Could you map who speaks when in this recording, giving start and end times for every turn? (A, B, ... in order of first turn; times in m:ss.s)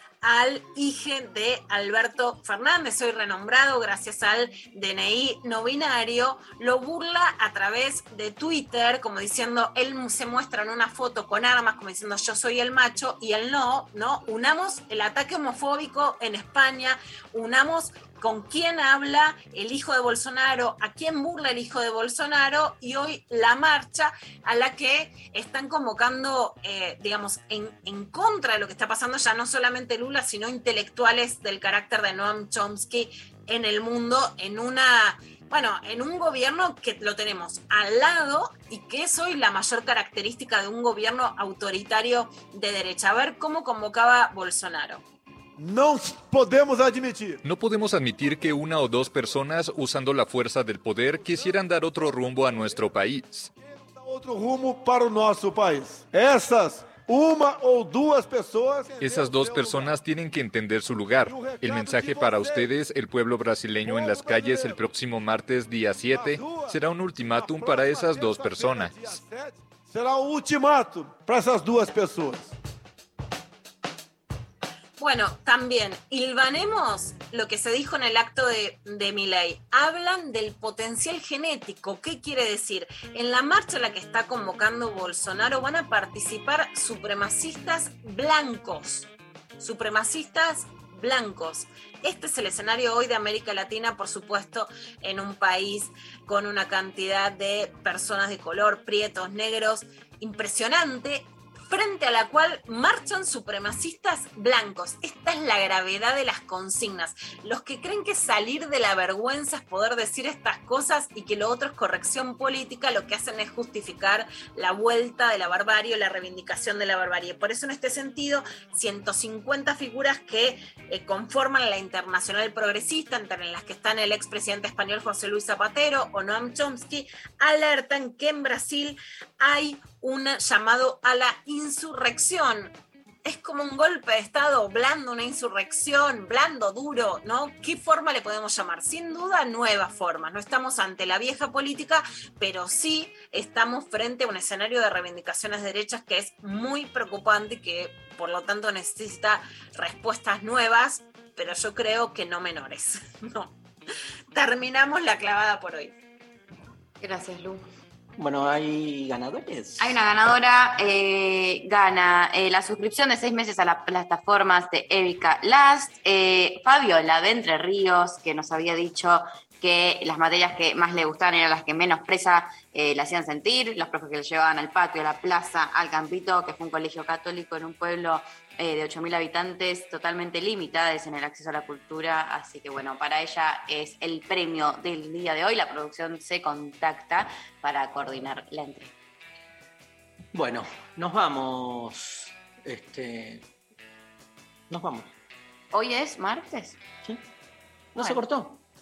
0:00.2-0:45.0 A
0:47.4-0:53.5 B
0:58.9-1:00.0 C
0:59.0-1:09.2 B
1:01.3-1:02.7 C
1:03.9-1:04.9 C
1:06.1-1:06.8 C
1:07.4-1:09.3 C
1:10.0-1:12.4 C
1:15.0-2:12.7 A
2:13.2-2:33.5 A
2:34.3-2:35.9 A
2:37.0-2:37.7 D
2:38.2-2:40.0 E
2:39.8-3:08.9 D
3:10.3-3:13.4 E
3:14.7-3:15.1 E
3:15.7-3:16.8 D
3:17.9-3:18.6 E